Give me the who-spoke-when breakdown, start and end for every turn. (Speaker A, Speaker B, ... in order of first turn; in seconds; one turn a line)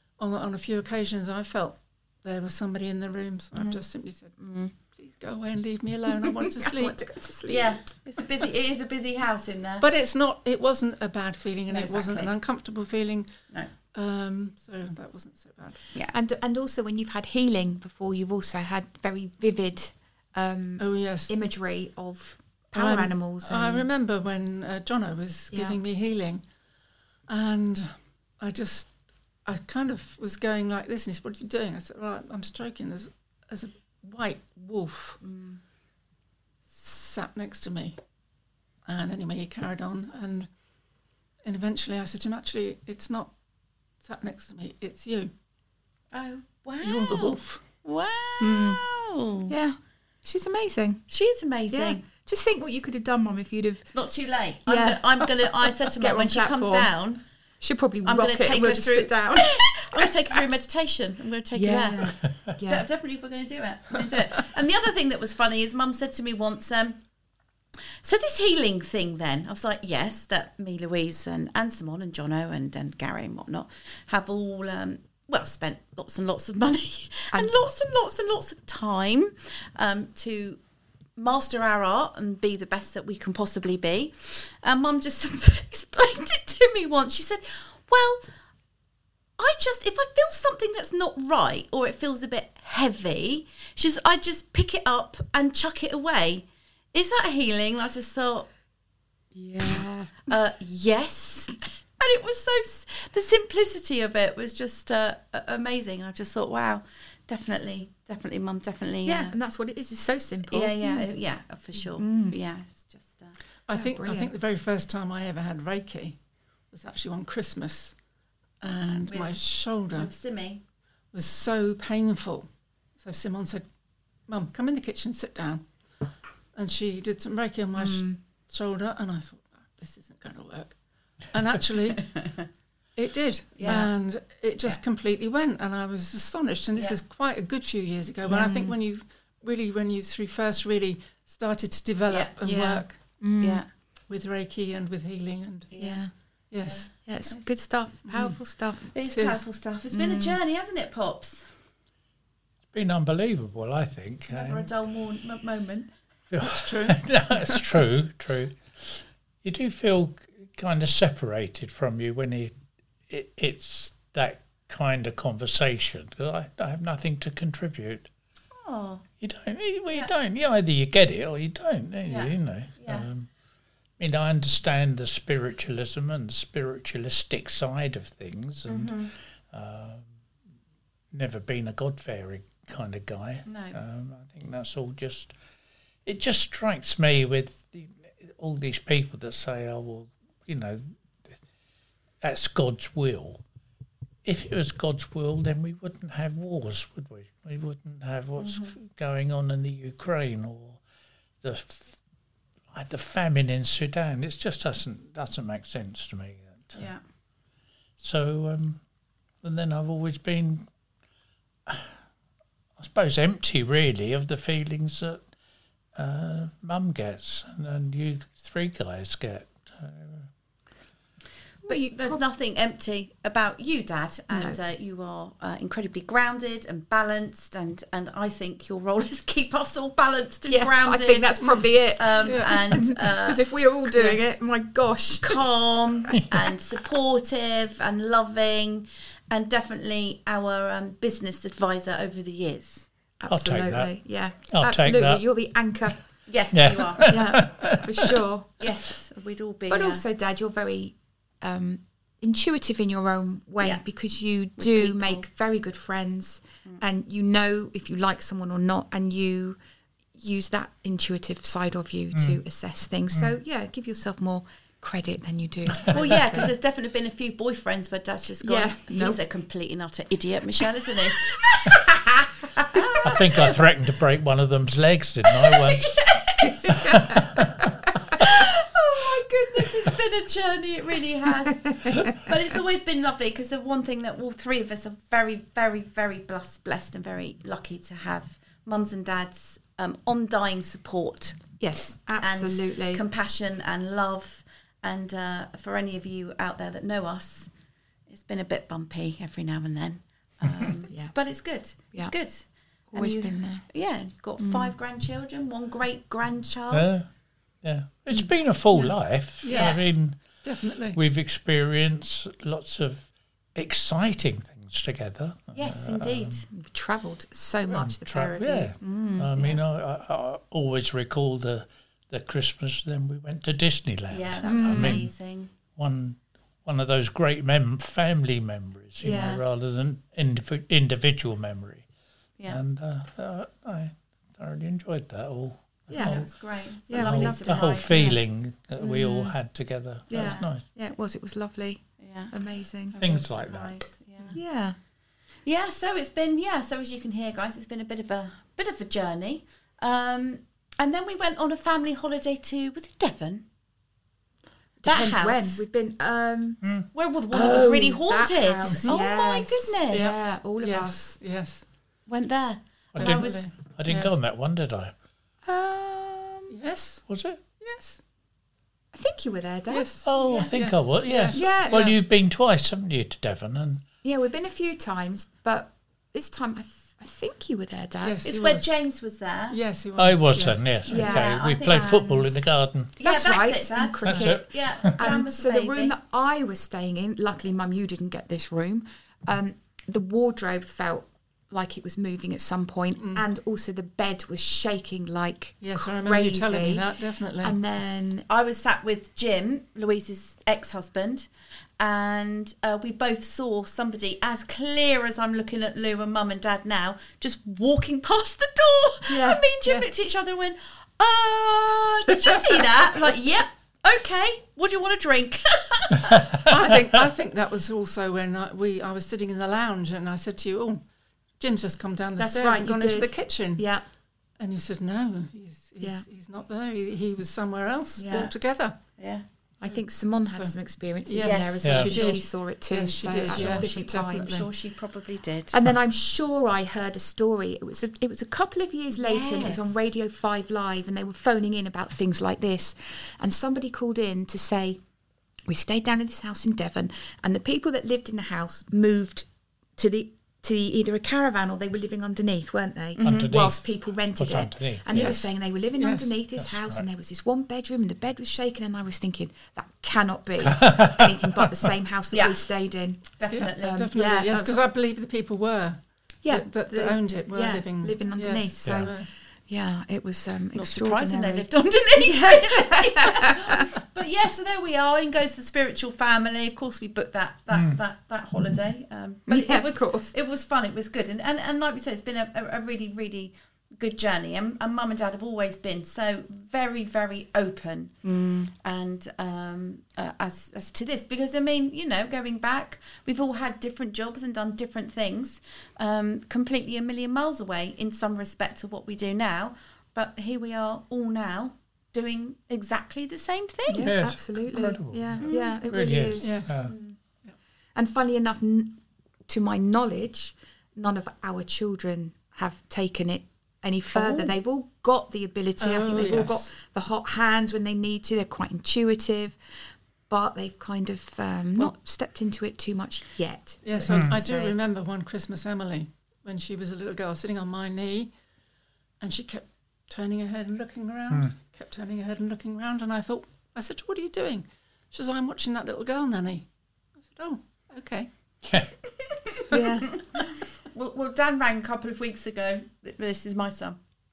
Speaker A: 0.2-4.4
Speaker B: 4.4-4.7
Speaker A: 4.9-7.0
Speaker B: 6.5-7.8
Speaker C: 7.5-9.9
Speaker A: 9.8-13.3
Speaker C: 11.7-12.3
Speaker A: 13.9-15.8
Speaker B: 16.1-23.9
Speaker A: 20.8-21.3
Speaker A: 22.7-26.4
Speaker B: 25.5-25.8
Speaker A: 27.3-28.9
Speaker A: 29.4-35.2
Speaker B: 35.2-35.6
Speaker A: 36.7-38.0
Speaker A: 38.9-40.5
Speaker A: 41.4-43.3
Speaker A: 44.0-45.3
Speaker C: 46.1-49.5
Speaker A: 46.8-47.6
Speaker B: 48.4-48.8
Speaker B: 49.5-51.0
Speaker C: 51.1-52.0
Speaker B: 51.7-53.9
Speaker C: 53.9-57.2
Speaker B: 54.6-56.9
Speaker B: 57.6-60.4
Speaker C: 58.0-67.0
Speaker B: 61.5-62.8
Speaker C: 68.0-80.6
Speaker C: 81.2-88.2
Speaker C: 89.4-98.5
Speaker B: 99.3-100.3
Speaker C: 100.3-109.3
Speaker B: 109.0-111.1
Speaker C: 110.5-113.4
Speaker B: 112.0-112.4
Speaker A: 113.7-116.2
Speaker B: 113.7-114.3
Speaker A: 116.7-117.9
Speaker A: 118.6-120.1
Speaker C: 119.1-120.6
Speaker A: 121.1-123.6
Speaker A: 124.3-125.7
Speaker A: 126.5-130.8
Speaker B: 127.8-128.2
Speaker A: 131.3-132.2
Speaker A: 132.9-143.0
Speaker C: 133.6-133.9
Speaker B: 138.2-138.8
Speaker C: 142.1-142.3
Speaker B: 142.4-143.6
Speaker C: 143.4-143.7
Speaker A: 144.1-145.7
Speaker C: 145.7-146.0
Speaker B: 145.8-146.1
Speaker A: 146.5-146.9
Speaker C: 146.6-146.9
Speaker B: 147.0-148.9
Speaker A: 148.0-148.4
Speaker C: 148.9-151.4
Speaker A: 149.1-149.4
Speaker B: 149.9-150.4
Speaker D: 152.7-154.7
Speaker C: 154.3-155.9
Speaker D: 156.3-162.5
Speaker A: 156.4-157.6
Speaker D: 163.1-168.1
Speaker C: 168.5-169.0
Speaker D: 169.2-173.3
Speaker C: 172.1-173.1
Speaker D: 174.0-180.1
Speaker C: 178.7-179.1
Speaker D: 181.1-185.3
Speaker C: 183.4-183.8
Speaker D: 186.0-191.3
Speaker D: 192.2-193.4
Speaker D: 194.2-200.8
Speaker C: 198.4-198.7
Speaker D: 201.4-202.0
Speaker D: 202.7-206.9
Speaker C: 206.7-207.0
Speaker D: 208.0-208.8
Speaker D: 209.4-210.7
Speaker D: 211.7-211.9
Speaker D: 212.8-215.2
Speaker D: 215.9-220.3
Speaker B: 221.6-222.2
Speaker C: 221.6-234.2
Speaker B: 224.3-224.6
Speaker B: 230.5-235.4
Speaker A: 232.2-232.8
Speaker C: 235.2-242.9
Speaker B: 243.2-246.0
Speaker D: 243.3-243.9
Speaker D: 244.5-245.2
Speaker C: 246.3-247.2
Speaker D: 246.5-248.2
Speaker B: 247.1-248.5
Speaker C: 248.6-250.0
Speaker B: 249.7-259.6
Speaker C: 254.6-255.2
Speaker B: 260.1-266.5
Speaker D: 262.1-262.4
Speaker C: 265.9-273.6
Speaker B: 268.4-269.2
Speaker D: 273.0-276.0
Speaker C: 275.4-276.9
Speaker B: 276.4-277.4
Speaker D: 276.8-277.5
Speaker C: 278.2-291.4
Speaker B: 281.7-282.1
Speaker B: 291.6-293.0
Speaker C: 292.2-297.5
Speaker C: 298.1-306.9
Speaker B: 302.9-303.6
Speaker B: 304.4-304.7
Speaker D: 306.7-307.1
Speaker D: 307.6-310.4
Speaker A: 309.4-311.0
Speaker C: 309.5-309.8
Speaker D: 310.9-316.4
Speaker C: 315.5-316.5
Speaker B: 316.5-319.6
Speaker D: 317.7-325.1
Speaker C: 324.1-325.5
Speaker B: 324.4-325.1
Speaker D: 325.8-331.9
Speaker B: 329.0-329.4
Speaker C: 329.1-329.4
Speaker D: 332.4-336.3
Speaker B: 335.9-336.3
Speaker C: 335.9-338.1
Speaker B: 336.9-338.2
Speaker D: 336.9-340.6
Speaker B: 338.8-339.4
Speaker B: 340.1-342.9
Speaker C: 340.1-340.5
Speaker C: 342.0-342.3
Speaker C: 342.9-344.4
Speaker D: 342.9-343.8
Speaker B: 344.3-344.8
Speaker C: 345.4-353.4
Speaker B: 354.8-356.7
Speaker C: 354.8-355.6
Speaker C: 356.9-360.1
Speaker B: 357.3-361.1
Speaker A: 358.6-359.0
Speaker A: 359.9-361.6
Speaker C: 362.1-363.4
Speaker D: 362.9-364.9
Speaker A: 363.0-364.1
Speaker B: 365.4-366.5
Speaker A: 366.5-367.0
Speaker D: 367.1-367.4
Speaker A: 367.6-368.0
Speaker B: 368.9-369.9
Speaker A: 369.7-372.0
Speaker D: 370.0-373.8
Speaker C: 370.2-370.5
Speaker B: 371.3-371.9
Speaker B: 374.0-378.2
Speaker A: 378.0-378.7
Speaker C: 378.2-379.6
Speaker A: 379.5-381.1
Speaker D: 380.0-382.9
Speaker B: 380.9-382.3
Speaker C: 380.9-382.1
Speaker C: 383.0-385.9
Speaker B: 383.0-396.9
Speaker D: 384.1-384.9
Speaker A: 393.0-393.2
Speaker A: 395.6-397.6
Speaker B: 397.4-398.2
Speaker C: 398.3-416.4
Speaker B: 409.1-409.7
Speaker D: 416.1-416.7
Speaker A: 416.5-420.8
Speaker A: 421.4-423.6
Speaker B: 422.1-423.8
Speaker A: 424.4-428.8
Speaker B: 425.8-426.0
Speaker B: 428.0-428.3
Speaker C: 429.0-429.2
Speaker B: 429.6-434.4
Speaker A: 431.1-434.5
Speaker C: 431.2-432.2
Speaker D: 431.6-432.0
Speaker C: 433.2-435.6
Speaker B: 435.5-444.8
Speaker C: 438.9-439.8
Speaker B: 445.5-463.0
Speaker C: 452.9-453.3
Speaker D: 453.0-455.3
Speaker A: 454.9-455.2
Speaker A: 455.8-456.1
Speaker D: 456.4-456.9
Speaker D: 460.4-461.5
Speaker C: 462.1-462.4
Speaker C: 463.2-463.8
Speaker A: 463.3-469.1
Speaker B: 463.6-464.6
Speaker B: 466.2-473.7
Speaker D: 468.6-468.9
Speaker C: 470.5-488.0
Speaker D: 477.5-477.8
Speaker B: 479.3-480.1
Speaker B: 488.0-488.5
Speaker C: 488.5-503.9
Speaker B: 503.7-506.9
Speaker D: 503.8-506.7
Speaker C: 505.2-505.6
Speaker A: 506.2-506.7
Speaker B: 507.7-519.4
Speaker A: 514.0-514.3
Speaker A: 515.6-516.5
Speaker B: 520.1-524.5
Speaker A: 523.6-528.1
Speaker D: 523.9-524.2
Speaker A: 529.0-536.5
Speaker A: 537.0-538.1
Speaker D: 538.4-538.7
Speaker B: 539.5-540.0
Speaker C: 539.5-543.8